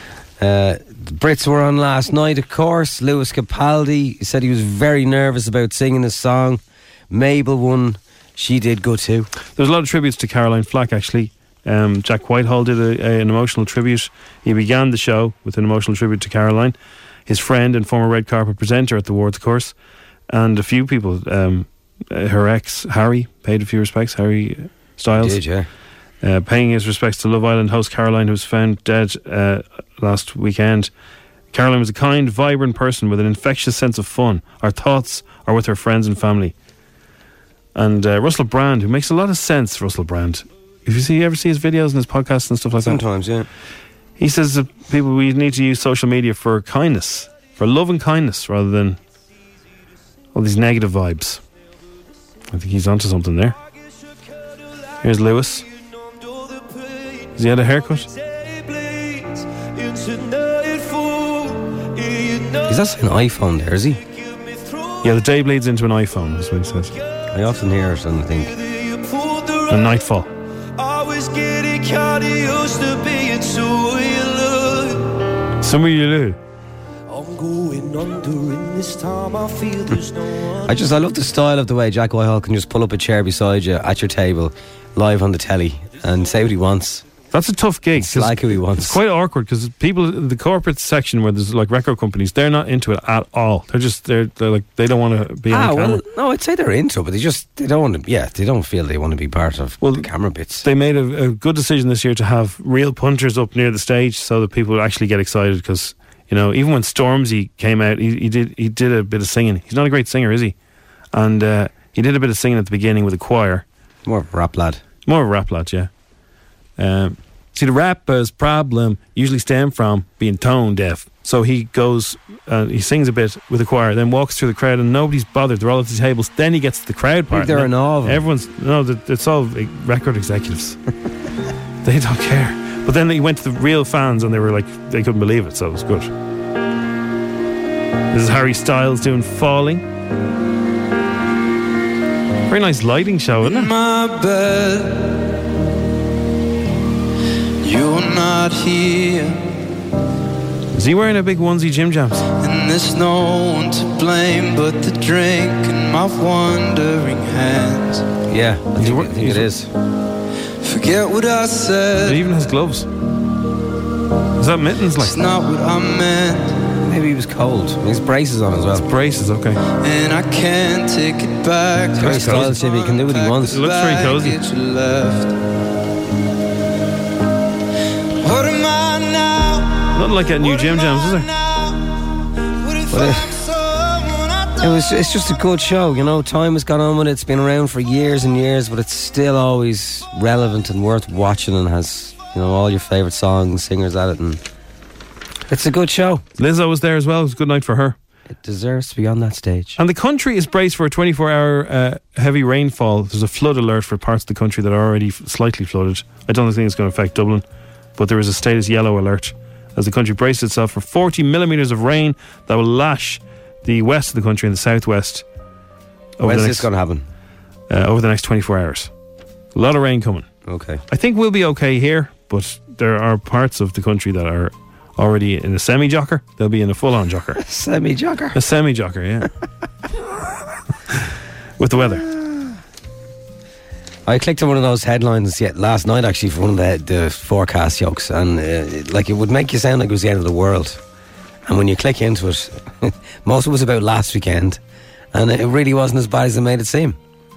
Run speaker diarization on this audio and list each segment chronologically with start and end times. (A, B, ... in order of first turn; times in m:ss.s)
0:00.4-0:09.3 A
0:09.4-0:16.8 B
0:17.3-0:19.7 B
0:20.3-0:25.4 B
0:25.2-0:25.7 A
0:26.2-0:30.9 B
0:31.5-0:36.5 B
0:37.7-0:43.0 B
0:42.8-0:43.5 A
0:44.2-0:49.0 B
0:50.3-0:51.4 B
0:52.5-0:53.6 B
0:55.0-0:55.6 B
0:57.4-0:58.1 B
1:02.6-1:04.0 A
1:05.0-1:06.9 B
1:07.3-1:08.5 A
1:09.7-1:10.3 B
1:11.2-1:14.3 C
1:15.6-1:16.4 B
1:20.6-1:27.0 A
1:27.3-1:36.0 B
1:28.0-1:29.0 A
1:35.5-1:40.6 A
1:39.8-1:40.1 B
1:40.6-1:50.5 B
1:51.1-1:53.6 B
1:54.0-1:54.8 A
1:55.0-1:55.9 B
1:56.8-2:10.8 B
2:07.3-2:08.2 A
2:11.8-2:16.1 B
2:18.1-2:19.8 B
2:22.5-2:23.7 B
2:23.4-2:25.2 C
2:27.6-2:29.4 C
2:30.7-2:32.2 B
2:32.4-2:38.1 C
2:38.3-2:39.7 A
2:38.8-2:39.5 B
2:40.6-2:42.3 C
2:42.0-2:42.9 B
2:44.4-2:45.2 B
2:45.0-2:46.6 C
2:46.8-2:48.8 A
2:48.8-2:49.6 B
2:49.8-2:55.3 C
2:51.9-2:53.6 A
2:52.0-2:52.6 B
2:53.5-2:54.4 B
2:58.2-2:59.9 C
2:59.9-3:01.3 B
3:00.4-3:01.8 C
3:02.7-3:04.6 C
3:02.9-3:03.4 A
3:04.6-3:14.4 A
3:15.5-3:16.2 A
3:16.4-3:18.0 B
3:18.3-3:19.8 A
3:19.8-3:27.4 B
3:28.0-3:35.2 B
3:36.2-3:36.7 B
3:36.2-3:37.1 A
3:37.7-3:38.9 B
3:39.5-3:40.3 B
3:40.4-3:40.8 A
3:40.9-3:47.4 B
3:47.4-3:48.4 A
3:48.3-3:49.3 B
3:51.6-3:52.0 B
3:54.0-4:00.8 A
4:01.4-4:04.6 A
4:05.1-4:07.0 A